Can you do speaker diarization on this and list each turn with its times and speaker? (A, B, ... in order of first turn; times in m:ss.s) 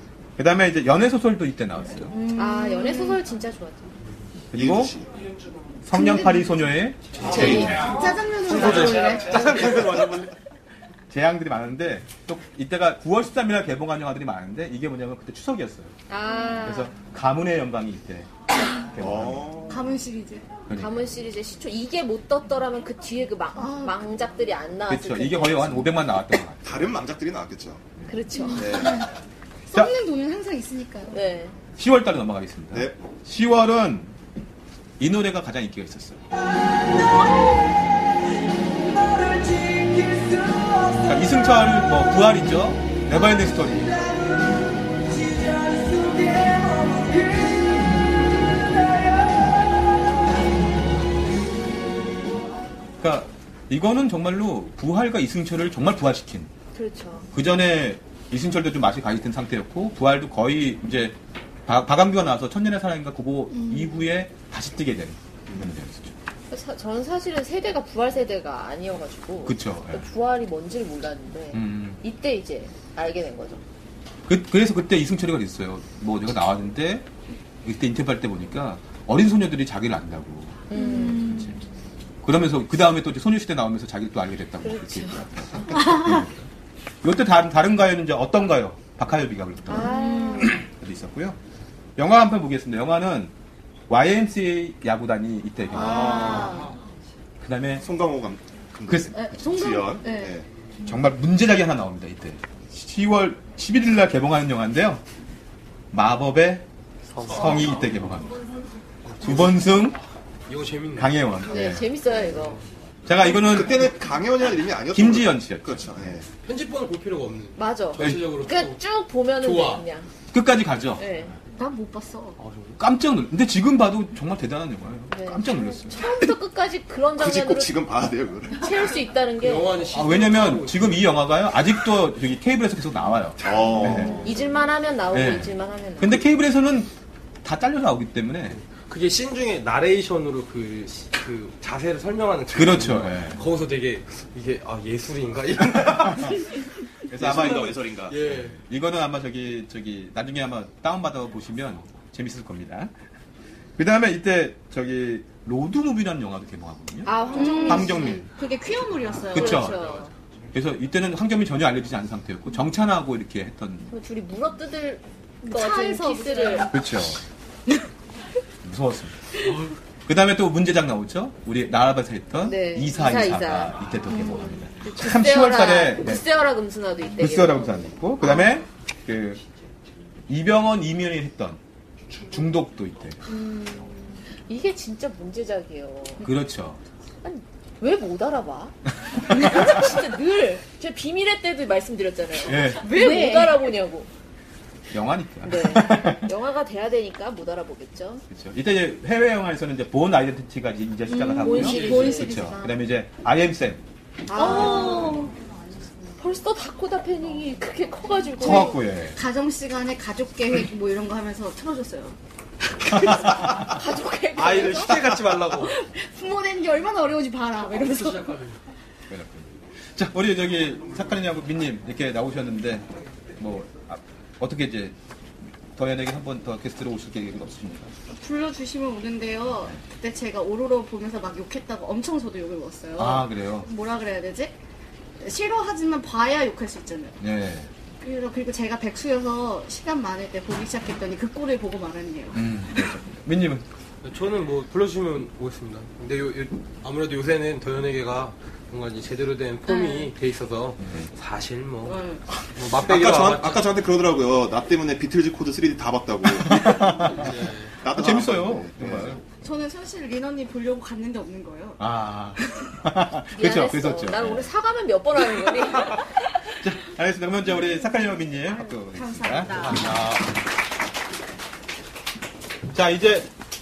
0:00.4-0:02.2 A
0:02.1-0:03.2 B
0:02.3-0:03.9 C
0:04.5-0:05.0 A
0:04.5-0:05.1 D
0:05.8-0:08.0 A
0:05.9-0:06.6 B
0:07.2-0:07.8 D
0:07.3-0:07.8 C
0:07.3-0:09.9 B
0:08.5-0:10.3 E
0:08.6-0:10.2 D
0:11.1-0:15.9 A
0:16.1-0:16.9 C
0:16.6-0:19.7 A
0:19.0-0:19.8 D
0:19.7-0:20.5 B
0:20.7-0:21.0 A
0:20.7-0:25.9 C
0:23.6-0:24.1 B
0:24.9-0:27.0 A
0:26.6-0:27.9 D
0:28.1-0:28.9 C
0:28.4-0:29.0 B
0:28.6-0:29.0 D
0:29.7-0:31.2 B
0:31.1-0:31.6 C
0:31.8-0:34.1 A
0:32.7-0:33.0 D
0:35.0-0:36.2 A
0:41.0-0:44.1 A
0:53.0-0:56.5 A
0:56.8-0:57.3 C
0:57.3-1:06.2 A
1:03.5-1:03.9 B
1:06.5-1:13.6 C
1:09.4-1:10.1 A
1:11.5-1:12.0 A
1:14.3-1:17.1 A
1:17.6-1:21.6 A
1:20.7-1:21.4 C
1:20.7-1:21.5 B
1:22.2-1:26.5 A
1:24.6-1:26.0 C
1:25.8-1:26.2 B
1:27.0-1:31.4 A
1:29.7-1:30.6 C
1:29.8-1:30.6 B
1:32.0-1:33.3 A
1:33.9-1:36.5 A
1:35.7-1:36.6 D
1:35.8-1:36.7 C
1:36.0-1:36.6 B
1:37.4-1:37.9 A
1:37.8-1:40.5 D
1:38.9-1:39.2 A
1:39.1-1:40.3 B
1:40.9-1:45.0 A
1:45.9-1:46.6 A
1:47.1-1:47.8 E
1:47.3-1:48.4 A
1:49.0-1:49.8 E
1:49.2-1:50.0 A
1:50.5-1:51.2 E
1:51.0-1:51.9 A
1:51.5-1:52.6 C
1:53.1-1:54.0 A
1:53.2-1:56.3 D
1:54.9-1:56.1 A
1:56.4-1:58.8 E
1:57.6-2:00.1 C
1:58.0-1:58.2 A
1:59.4-1:59.8 E
2:00.3-2:01.0 A
2:01.0-2:01.4 C
2:01.6-2:02.4 B
2:02.4-2:02.8 E
2:02.8-2:06.4 A
2:05.1-2:07.8 C
2:07.2-2:08.9 D
2:08.5-2:09.8 C
2:09.4-2:11.2 E
2:09.9-2:14.3 A
2:13.4-2:14.3 D
2:13.9-2:16.2 C
2:15.1-2:16.9 A
2:17.4-2:18.6 A
2:18.5-2:26.5 E
2:22.5-2:23.4 A
2:27.1-2:32.9 A
2:27.1-2:28.2 D
2:27.2-2:28.6 E
2:33.8-2:38.3 A
2:37.1-2:38.2 C
2:37.1-2:39.8 B
2:39.3-2:40.1 C
2:39.3-2:39.9 A
2:40.5-2:43.9 A
2:43.9-2:46.7 C
2:45.4-2:46.8 B
2:46.7-2:47.2 A
2:48.6-2:49.2 A
2:50.1-2:56.2 A
2:52.4-2:53.8 C
2:54.2-2:54.5 B
2:54.8-2:57.9 C
2:57.2-2:59.4 A
3:00.3-3:01.6 A
3:02.3-3:03.2 A
3:03.3-3:06.3 C
3:06.2-3:06.8 A
3:07.2-3:08.8 C
3:09.3-3:14.1 C
3:12.4-3:13.0 A
3:12.7-3:13.7 B
3:14.9-3:16.3 A
3:15.4-3:18.2 C
3:18.3-3:23.8 A
3:21.1-3:22.7 B
3:21.2-3:22.7 C
3:24.3-3:25.3 B
3:24.3-3:25.3 C
3:26.2-3:28.8 C
3:28.4-3:29.2 A
3:28.4-3:32.2 B
3:32.9-3:33.4 B
3:33.0-3:33.6 A
3:33.2-3:35.0 C
3:34.4-3:35.7 E
3:34.7-3:35.4 A
3:35.6-3:38.4 B
3:37.8-3:38.6 E
3:39.1-3:45.0 A
3:45.7-3:47.9 A
3:48.1-3:54.6 B
3:53.0-3:53.7 A
3:55.2-3:57.2 B
3:57.2-3:57.7 A
3:58.0-4:02.4 B
4:02.3-4:03.7 A
4:04.0-4:13.7 E
4:09.7-4:10.1 B
4:10.8-4:11.1 A
4:11.8-4:12.2 B
4:12.7-4:17.3 D
4:16.4-4:17.3 A
4:17.2-4:17.8 E
4:17.8-4:19.2 D
4:17.9-4:19.2 A
4:19.4-4:21.8 B
4:21.8-4:24.5 A
4:23.3-4:26.1 C
4:26.6-4:30.0 A
4:28.0-4:29.9 B
4:29.6-4:30.2 E
4:32.7-4:33.3 A